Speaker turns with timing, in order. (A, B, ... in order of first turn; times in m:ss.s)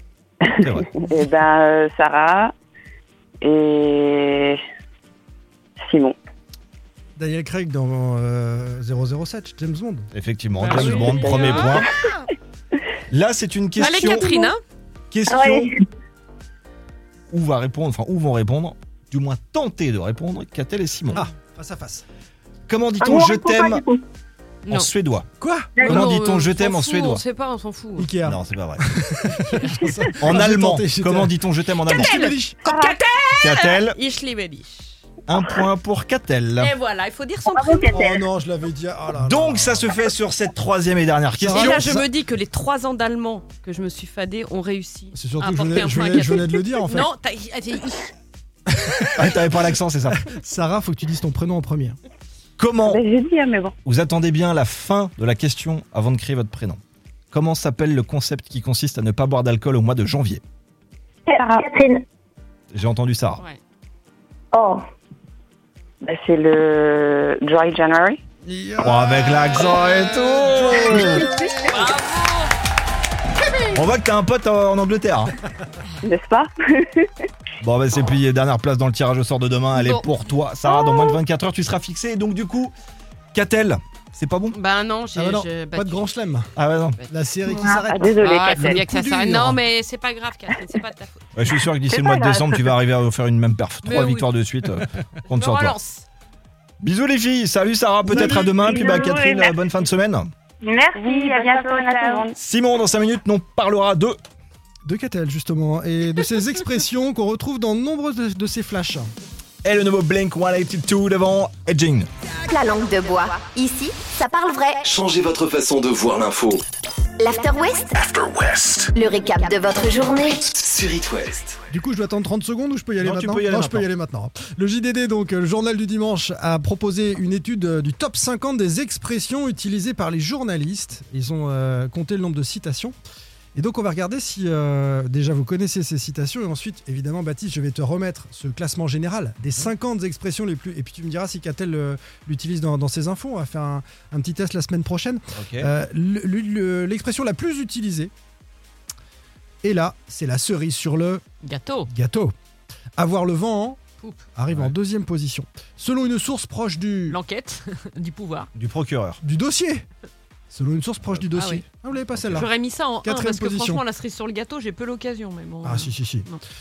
0:00.4-0:02.5 A
0:00.6-0:00.9 B
0:03.4-0:04.6 A
0:05.8-0:06.2 A
0:07.2-0:10.1 C
0:10.1-0:11.9 B
0:10.6-0:12.2 D
0:10.9-0:11.8 A
0:13.1-0:14.4 B
0:13.8-0:14.6 D
0:15.1-0:15.7 B
0:15.3-0:15.6 E
0:17.3-0:21.2 B
0:21.1-0:22.0 C
0:22.7-0:23.8 B
0:23.0-0:24.0 E
0:24.7-0:25.3 B
0:25.4-0:25.9 C
0:25.8-0:28.1 D
0:25.8-0:27.2 B
0:28.0-0:32.7 C
0:28.2-0:28.8 B
0:29.6-0:29.9 D
0:30.2-0:32.2 B
0:31.9-0:34.9 D
0:33.4-0:34.0 B
0:35.3-0:36.7 B
0:36.6-0:38.0 D
0:37.5-0:38.2 E
0:37.9-0:39.9 C
0:39.1-0:41.9 B
0:41.4-0:42.1 C
0:41.5-0:48.1 D
0:45.1-0:47.1 C
0:48.7-0:49.4 C
0:49.2-0:50.2 B
0:50.1-0:52.0 C
0:52.6-0:53.0 B
0:52.8-0:53.7 A
0:53.8-0:56.8 B
0:57.3-1:00.4 B
1:01.3-1:01.6 A
1:01.6-1:02.0 E
1:02.7-1:03.4 B
1:06.0-1:08.2 A
1:08.4-1:09.8 C
1:08.8-1:11.3 B
1:09.8-1:10.4 D
1:10.4-1:11.6 C
1:11.6-1:12.5 D
1:13.7-1:15.3 B
1:16.0-1:17.1 A
1:17.6-1:22.7 B
1:19.8-1:20.1 D
1:23.3-1:24.6 B
1:24.5-1:26.1 D
1:25.1-1:26.5 C
1:26.6-1:27.0 B
1:27.1-1:29.6 C
1:27.7-1:28.8 A
1:28.2-1:31.2 D
1:31.4-1:35.8 B
1:32.0-1:32.3 E
1:33.8-1:34.3 D
1:35.3-1:36.0 D
1:36.8-1:40.3 B
1:38.1-1:38.6 C
1:38.3-1:39.5 E
1:40.6-1:42.2 E
1:40.9-1:42.3 A
1:42.4-1:44.2 B
1:44.8-1:49.1 C
1:49.6-1:52.1 B
1:52.5-1:54.8 F
1:54.8-1:56.6 G
1:57.2-1:57.9 F
1:58.9-2:00.5 F
2:00.6-2:01.5 G
2:01.7-2:12.9 C
2:03.0-2:03.9 B
2:13.5-2:28.1 C
2:25.3-2:25.7 B
2:29.6-2:31.2 C
2:31.4-2:31.9 D
2:31.9-2:32.3 C
2:33.0-2:33.8 C
2:34.4-2:37.2 C
2:34.5-2:34.7 B
2:37.1-2:38.5 D
2:38.6-2:39.2 B
2:39.2-2:39.8 C
2:40.5-2:43.8 C
2:41.0-2:41.3 B
2:41.4-2:41.6 D
2:42.1-2:42.5 B
2:42.3-2:46.4 D
2:45.6-2:46.3 C